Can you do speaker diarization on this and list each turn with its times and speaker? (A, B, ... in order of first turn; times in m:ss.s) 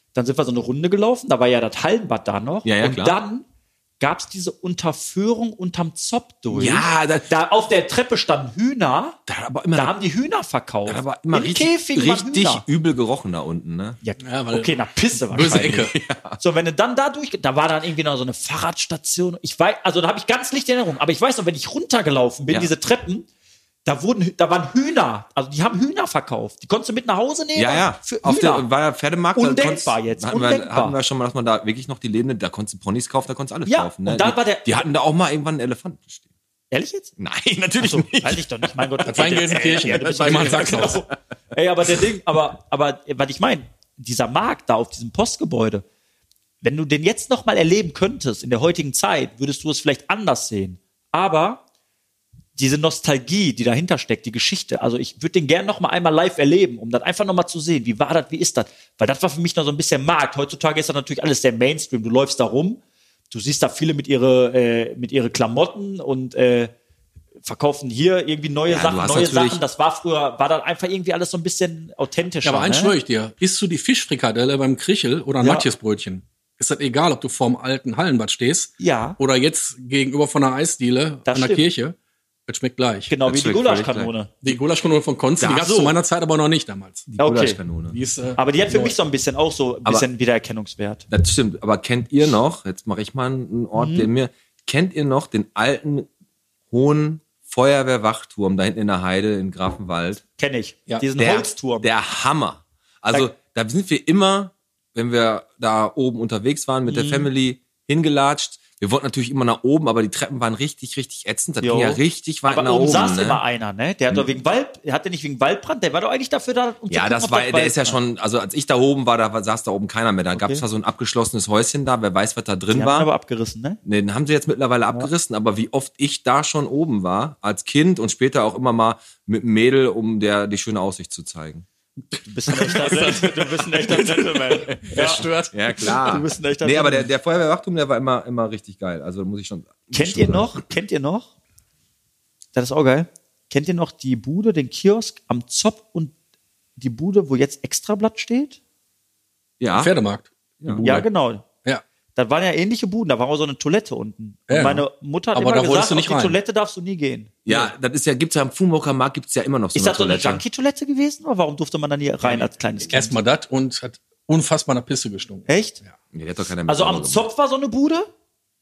0:00.1-0:03.4 A
0:02.6-0:03.2 B
0:04.0-0:09.2 A
0:06.5-0:07.3 B
0:09.3-0:09.9 B
0:09.7-0:12.6 A
0:10.8-0:14.0 B
0:14.0-0:23.2 A
0:14.2-0:14.7 C
0:15.3-0:15.9 C
0:15.5-0:16.4 B
0:23.8-0:28.7 A
0:27.6-0:36.2 B
0:29.3-0:31.0 A
0:33.6-0:34.8 A
0:36.7-0:37.1 A
0:37.2-0:38.9 B
0:37.8-0:45.8 A
0:39.0-0:41.0 C
0:40.3-0:40.8 B
0:46.6-0:51.6 A
0:52.6-1:06.7 A
1:07.4-1:12.9 A
1:08.7-1:09.6 B
1:12.4-1:22.0 C
1:15.4-1:15.7 A
1:18.8-1:19.2 A
1:21.2-1:21.6 A
1:22.5-1:23.1 C
1:23.1-1:24.3 A
1:23.2-1:24.1 B
1:24.4-1:27.1 C
1:25.4-1:26.0 A
1:27.1-1:28.0 B
1:27.2-1:27.6 A
1:27.9-1:28.9 C
1:28.4-1:31.0 A
1:31.1-1:36.1 B
1:33.7-1:34.1 A
1:36.7-1:40.2 B
1:40.4-1:41.9 A
1:41.2-1:53.4 B
1:46.9-1:47.3 A
1:51.6-1:58.0 A
1:56.9-2:03.1 B
2:00.3-2:00.6 A
2:02.7-2:03.8 A
2:03.8-2:11.6 B
2:12.2-2:15.3 A
2:12.5-2:16.1 C
2:15.0-2:20.6 B
2:15.8-2:17.1 A
2:19.9-2:21.3 A
2:22.5-2:26.1 A
2:26.8-2:28.6 A
2:29.6-2:29.9 B
2:29.7-2:31.1 C
2:30.8-2:31.4 A
2:32.1-2:37.4 A
2:34.5-2:36.4 C
2:37.4-2:40.4 B
2:39.7-2:43.2 A
2:42.9-2:45.9 C
2:45.5-2:45.8 A
2:46.1-2:47.3 B
2:46.7-2:48.1 A